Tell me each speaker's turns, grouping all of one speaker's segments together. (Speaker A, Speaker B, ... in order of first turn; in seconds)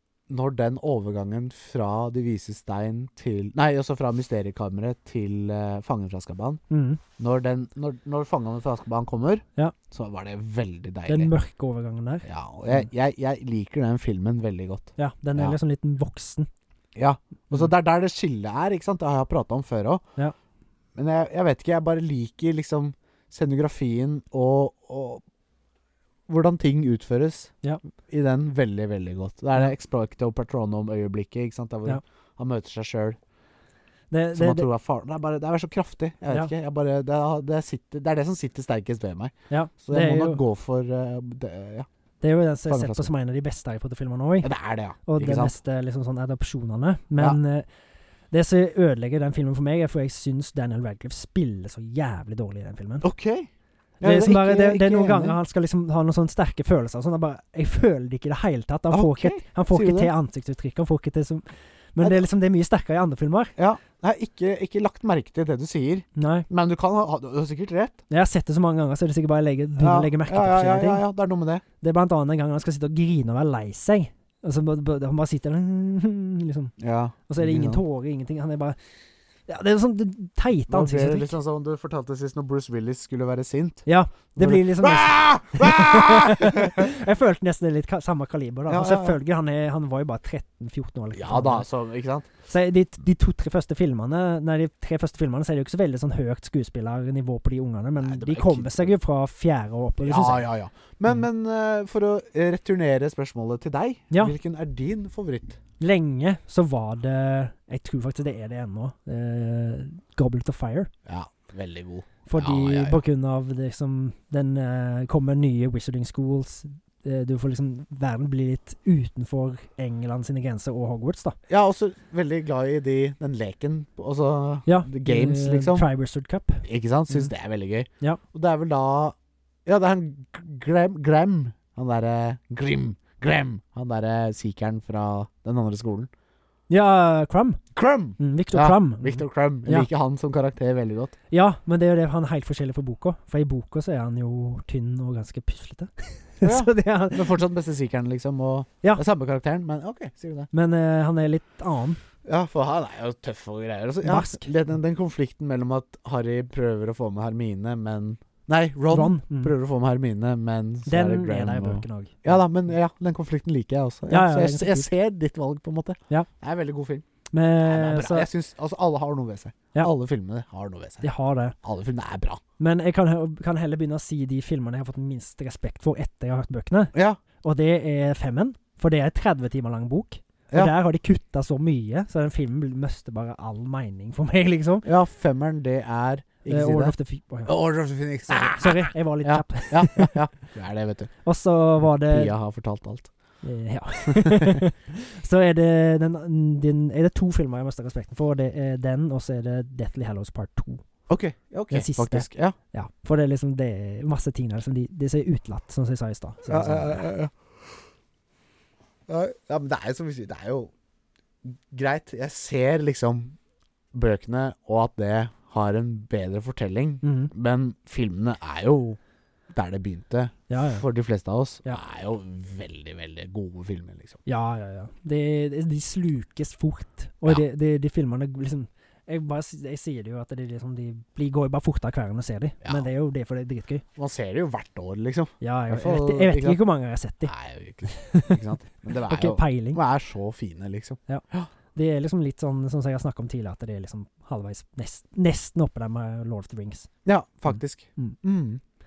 Speaker A: 0.3-6.6, 7.2-11.3, 12.2-15.6, 16.9-20.0, 20.9-25.2, 26.3-27.5, 28.0-33.2, 34.3-41.9, 42.7-43.1, 44.4-45.5, 53.0-53.5, 54.0-55.4, 58.9-60.1, 62.0-62.3, 63.6-68.0, 69.8-71.6, 76.8-77.8, 80.7-86.9, 88.7-89.2, 91.2-92.3, 98.0-98.9, 100.0-105.6, 111.1-113.0, 121.5-125.9, 126.7-129.2, 129.7-136.1, 137.8-141.1, 146.4-150.5, 152.2-167.1, 167.6-171.1, 171.6-172.4, 176.9-177.2, 184.8-186.9, 187.5-191.1, 192.1-193.1, 194.1-194.6, 201.1-202.6, 206.4-207.3, 209.1-210.7, 211.4-213.4, 213.9-219.0, 219.5-224.2, 232.6-232.9, 234.0-236.6, 237.3-241.5, 247.1-248.6
Speaker B: 6.7-7.0, 11.1-12.3, 15.0-16.5, 34.1-34.7, 39.5-40.4, 42.2-44.5, 45.1-47.7, 48.3-53.1, 54.0-63.5, 66.2-66.5, 68.1-71.0, 71.8-76.8, 77.3-78.8, 79.5-81.3, 83.9-91.7, 92.5-100.5, 105.8-110.9, 112.3-121.4, 124.7-127.3, 136.7-137.6, 138.2-139.9, 141.3-147.4, 150.5-152.0, 154.0-154.5, 158.9-159.5, 160.9-162.3, 164.1-164.9, 167.3-168.3, 171.0-171.6, 172.6-184.9, 186.5-187.5, 188.5-190.2, 191.2-192.3, 193.4-200.8, 201.7-207.0, 217.0-217.3, 220.5-220.8, 224.3-233.8, 235.4-238.5, 239.0-239.8, 241.8-246.9